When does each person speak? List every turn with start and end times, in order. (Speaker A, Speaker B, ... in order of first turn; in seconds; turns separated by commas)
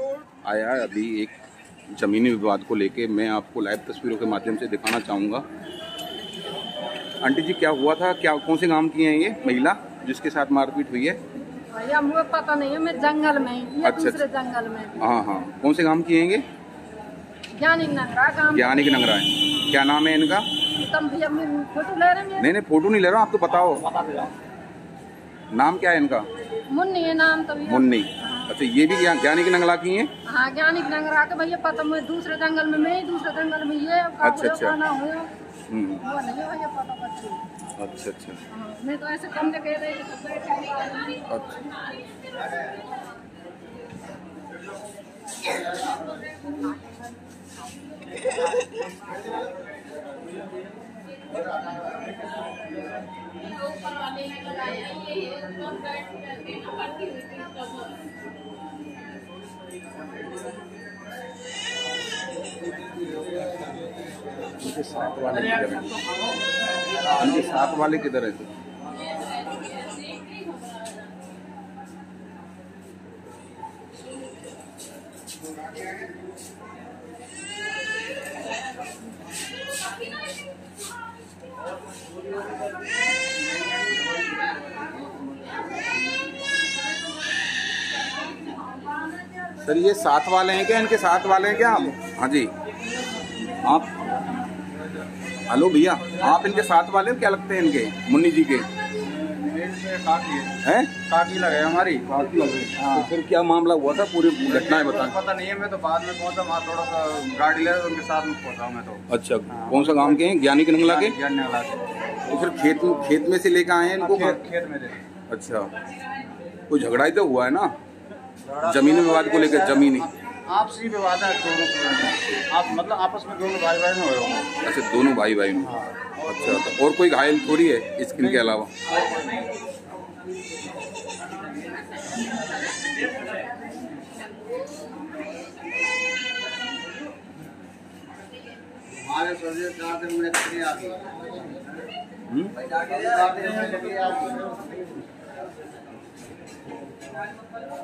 Speaker A: 0.4-1.4, Speaker A: 1.9-5.4, Speaker A: 7.2-11.2, Speaker B: 11.7-15.0, Speaker A: 13.8-14.2, Speaker A: 15.0-16.4, Speaker B: 17.6-19.1, Speaker A: 18.5-20.5, Speaker B: 20.8-22.5, Speaker A: 22.4-24.2, Speaker A: 25.5-26.3, Speaker B: 26.7-28.5, Speaker A: 27.7-30.1, Speaker B: 30.3-35.3, Speaker A: 34.2-34.8, Speaker A: 35.7-36.0, Speaker B: 36.0-37.4, Speaker A: 37.8-38.4, Speaker B: 38.5-41.3, Speaker A: 41.3-41.6, Speaker B: 53.9-57.5, Speaker A: 64.6-65.9, Speaker A: 67.1-68.5, Speaker A: 89.6-92.5, Speaker A: 93.6-93.9, Speaker A: 95.5-98.7, Speaker C: 99.0-100.6, Speaker A: 100.6-101.0, Speaker C: 101.1-102.1, Speaker A: 102.1-105.2, Speaker C: 102.7-103.1, Speaker C: 104.5-113.2, Speaker A: 109.1-111.2, Speaker A: 112.3-114.4, Speaker C: 114.0-115.0, Speaker A: 115.3-115.7, Speaker A: 116.7-117.7, Speaker C: 118.5-124.5, Speaker A: 118.6-120.1, Speaker A: 124.6-128.7, Speaker C: 125.6-126.7, Speaker C: 128.2-129.4, Speaker C: 139.0-141.1, Speaker A: 142.3-142.6, Speaker C: 143.0-144.5